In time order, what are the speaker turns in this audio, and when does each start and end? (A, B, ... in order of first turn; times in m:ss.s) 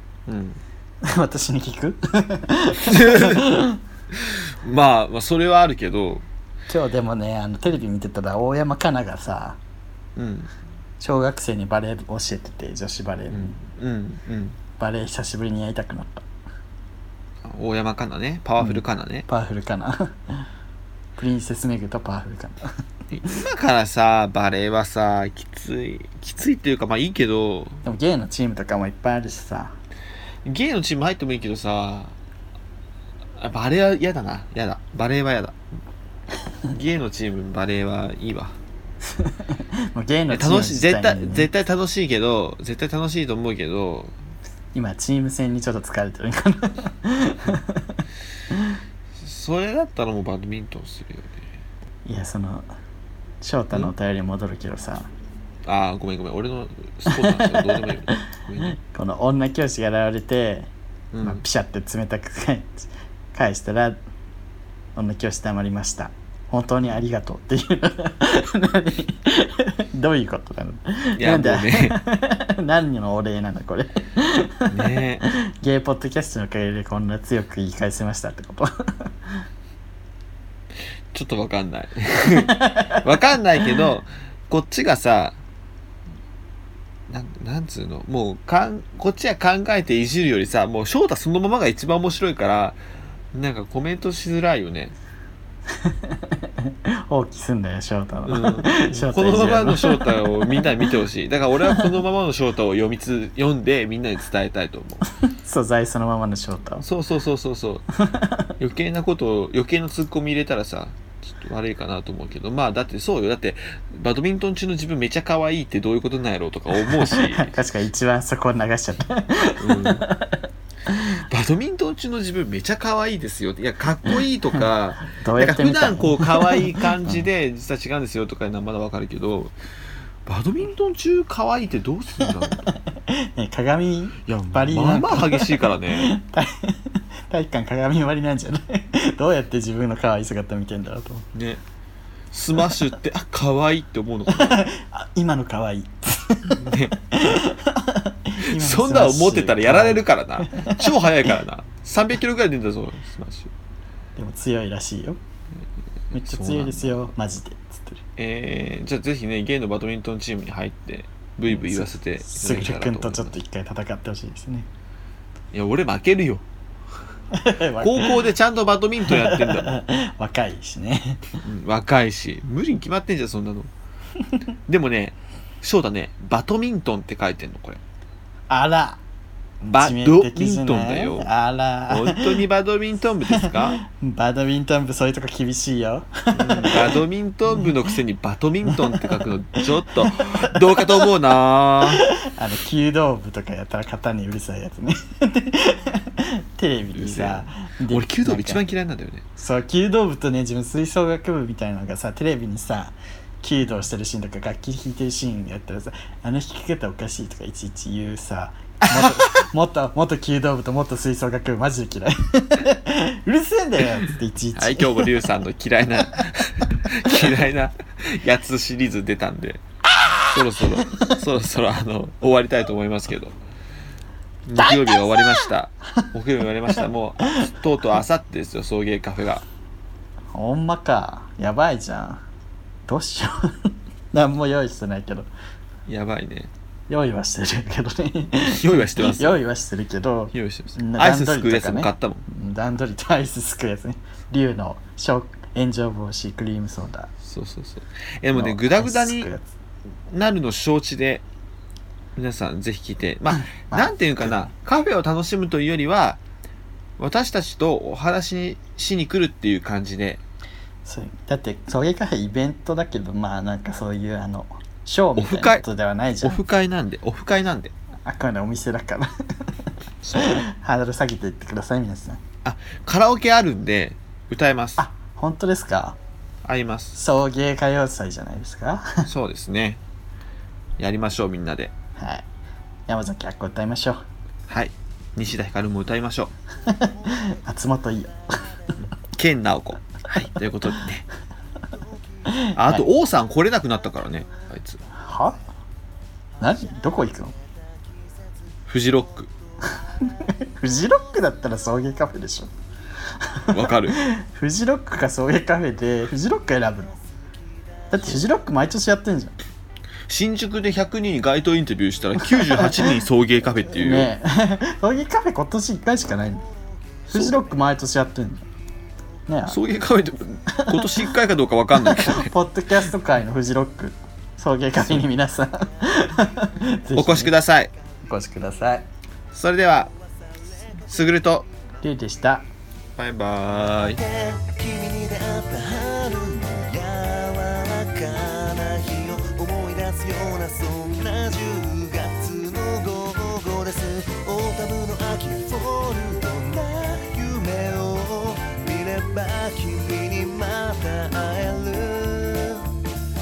0:00.3-0:00.6 A
0:01.0-0:03.8 B
0:02.8-0:03.4 A
0:04.1-0:06.2 A
0:06.7-0:09.6 B
0:10.2-0:10.5 A
0:11.0-0:13.6 B
0:13.3-0:14.6 A
0:14.8-0:16.2 B
0:17.4-0:19.3 A
0:18.6-0:20.4 B
0:21.2-0:22.6 B
0:23.1-0:27.8 A
0:27.8-0:29.8 B
0:30.4-0:32.2 A
0:33.4-0:35.6 A
0:36.7-0:38.6 A
0:39.2-0:41.5 B
0:40.3-0:44.1 A
0:44.7-0:48.0 B
0:49.2-0:51.5 A
0:52.0-0:52.7 B
0:53.4-0:55.1 B
0:55.6-0:58.8 A
0:57.1-0:58.1 B
0:58.8-1:00.7 B
1:01.1-1:01.4 A
1:01.2-1:04.0 B
1:04.9-1:14.9 B
1:11.2-1:12.0 A
1:14.7-1:15.2 A
1:15.6-1:19.1 B
1:21.1-1:25.4 A
1:27.1-1:32.8 A
1:33.3-1:34.9 A
1:35.8-1:40.9 B
1:38.3-1:45.0 A
1:41.6-1:42.0 B
1:45.3-1:46.8 B
1:46.8-1:47.8 A
1:48.0-1:48.4 B
1:48.6-1:57.5 A
1:56.8-2:01.1 B
1:59.6-2:00.1 A
2:01.1-2:09.5 A
2:04.6-2:07.3 B
2:10.2-2:12.7 A
2:12.8-2:21.3 B
2:14.2-2:16.1 A
2:21.3-2:21.6 A
2:22.3-2:24.6 A
2:24.3-2:31.0 B
2:26.5-2:26.9 A
2:28.4-2:33.5 A
2:34.2-2:35.2 B
2:36.1-2:38.0 B
2:36.1-2:37.1 A
2:38.2-2:43.3 A
2:41.5-2:44.7 B
2:45.5-2:46.4 A
2:47.4-2:48.3 B
2:47.8-2:49.8 A
2:49.1-2:51.4 B
2:51.4-2:53.7 A
2:54.7-2:57.8 A
2:58.5-2:59.0 B
2:59.6-3:02.4 B
2:59.7-3:01.3 A
3:01.9-3:03.8 A
3:03.4-3:07.0 B
3:06.3-3:12.0 A
3:08.7-3:09.2 B
3:09.8-3:10.2 B
3:12.2-3:18.6 B
3:17.0-3:19.2 A
3:19.4-3:35.1 B
3:29.0-3:29.3 A
3:34.5-3:39.6 A
3:40.3-3:43.4 A
3:44.5-3:49.4 A
3:44.6-3:45.5 B
3:50.3-3:52.2 B
3:52.9-3:55.3 B
3:55.9-3:56.5 A
3:56.9-4:07.1 B
3:58.4-3:59.4 A
4:00.3-4:02.2 A
4:07.2-4:09.3 A
4:08.3-4:09.5 B
4:10.1-4:11.2 A
4:12.1-4:16.2 A
4:13.3-4:14.5 B
4:17.0-4:20.2 A
4:20.8-4:26.4 B
4:25.2-4:25.6 A
4:26.2-4:27.7 A
4:28.0-4:29.5 B
4:30.0-4:30.4 A
4:30.1-4:32.2 B
4:32.4-4:34.8 A
4:34.8-4:36.0 B
4:36.4-4:37.0 A
4:36.9-4:39.1 B
4:39.0-4:39.8 A
4:40.8-4:41.7 A
4:42.0-4:42.2 B
4:42.9-4:44.0 B
4:44.5-4:46.3 A
4:46.7-4:48.5 B
4:49.1-4:51.0 A
4:52.3-4:52.8 B
4:52.5-4:54.8 A
4:55.0-4:55.4 B
4:56.4-4:57.4 B
4:58.7-4:59.3 A
4:59.9-5:02.5 B
5:03.4-5:07.0 B
5:03.5-5:04.0 A
5:07.9-5:09.4 B
5:10.1-5:14.1 A
5:12.2-5:12.9 B
5:13.7-5:16.4 B
5:17.1-5:18.4 B
5:17.1-5:17.4 A
5:19.3-5:19.6 B
5:19.4-5:22.3 A
5:20.6-5:21.0 B
5:21.8-5:27.3 B
5:26.9-5:27.7 A
5:28.0-5:28.8 B
5:29.3-5:29.9 A
5:30.7-5:31.5 A
5:31.8-5:32.5 B
5:33.0-5:34.0 A
5:34.0-5:52.8 C